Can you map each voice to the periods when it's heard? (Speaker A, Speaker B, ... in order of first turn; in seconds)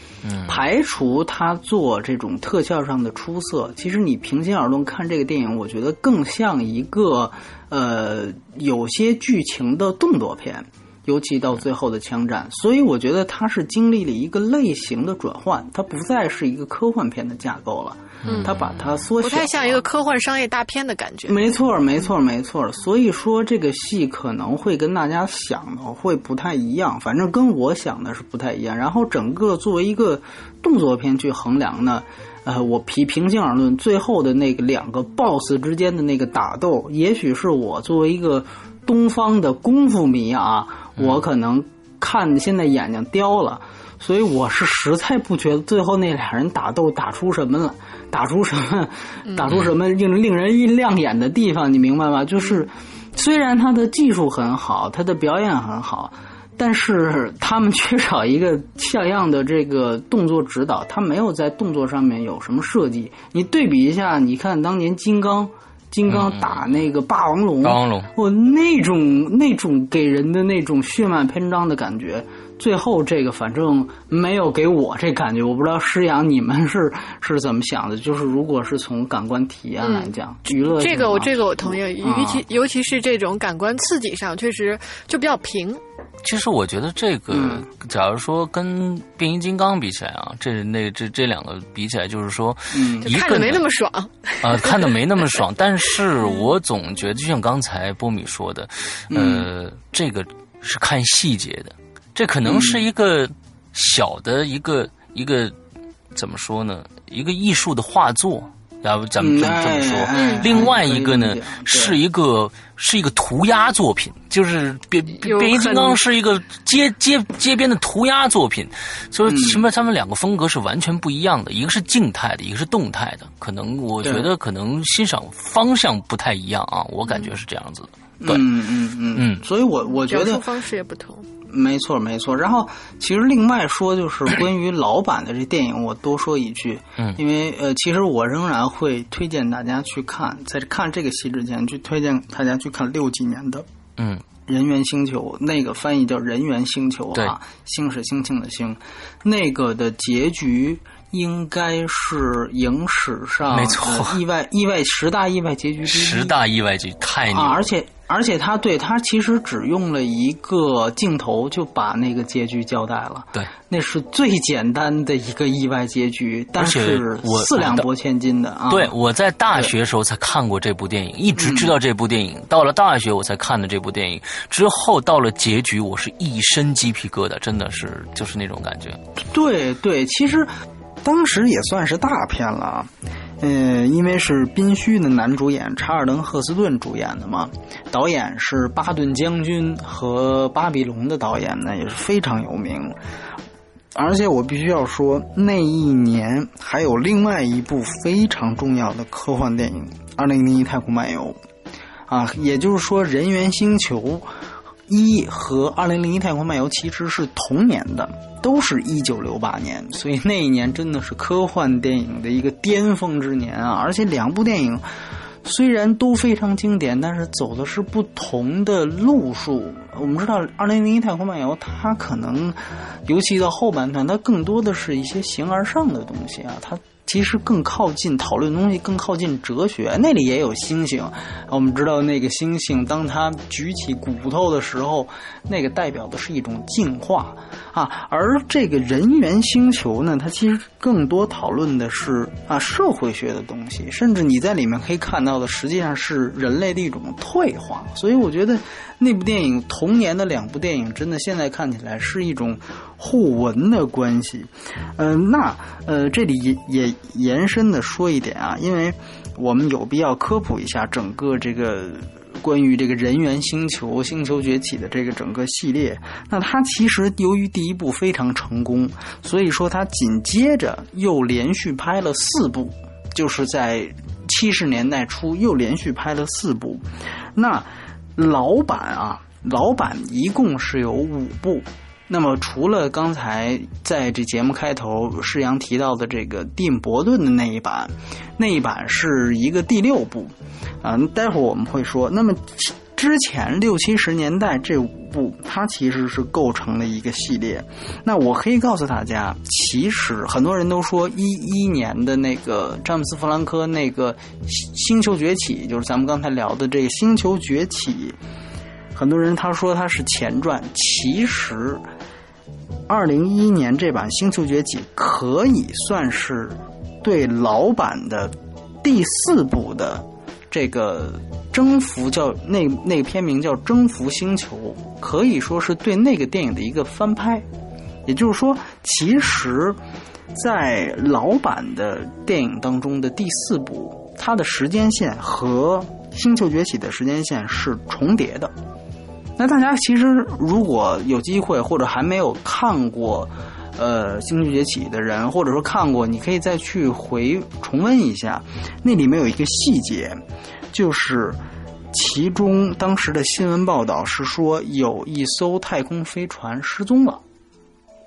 Speaker A: 0.2-0.6, 18.2-18.6, 66.1-66.5, 67.6-68.1, 86.2-93.7, 94.4-105.5, 106.1-128.5, 129.1-129.4, 144.0-144.2, 153.5-154.2, 155.8-157.6, 166.6-167.9, 168.7-179.0
Speaker B: 0.5-19.8, 21.3-82.4, 87.3-87.7, 92.7-93.1, 99.1-99.5, 102.4-102.8, 109.2-112.0, 119.2-119.6, 124.0-124.3, 128.2-130.4, 131.5-143.7, 144.4-156.3, 157.3-168.9, 171.3-171.7, 179.3-180.5, 181.0-193.0, 193.9-201.4, 202.1-204.3, 204.9-214.8, 215.4-308.2, 308.9-311.8, 312.9-327.4, 328.1-329.8, 330.3-338.5, 339.4-350.2, 350.7-351.4, 351.9-357.2
Speaker C: 18.2-18.5, 19.2-21.5, 79.8-85.8, 93.0-95.3, 110.1-110.6, 115.2-116.0, 129.8-131.3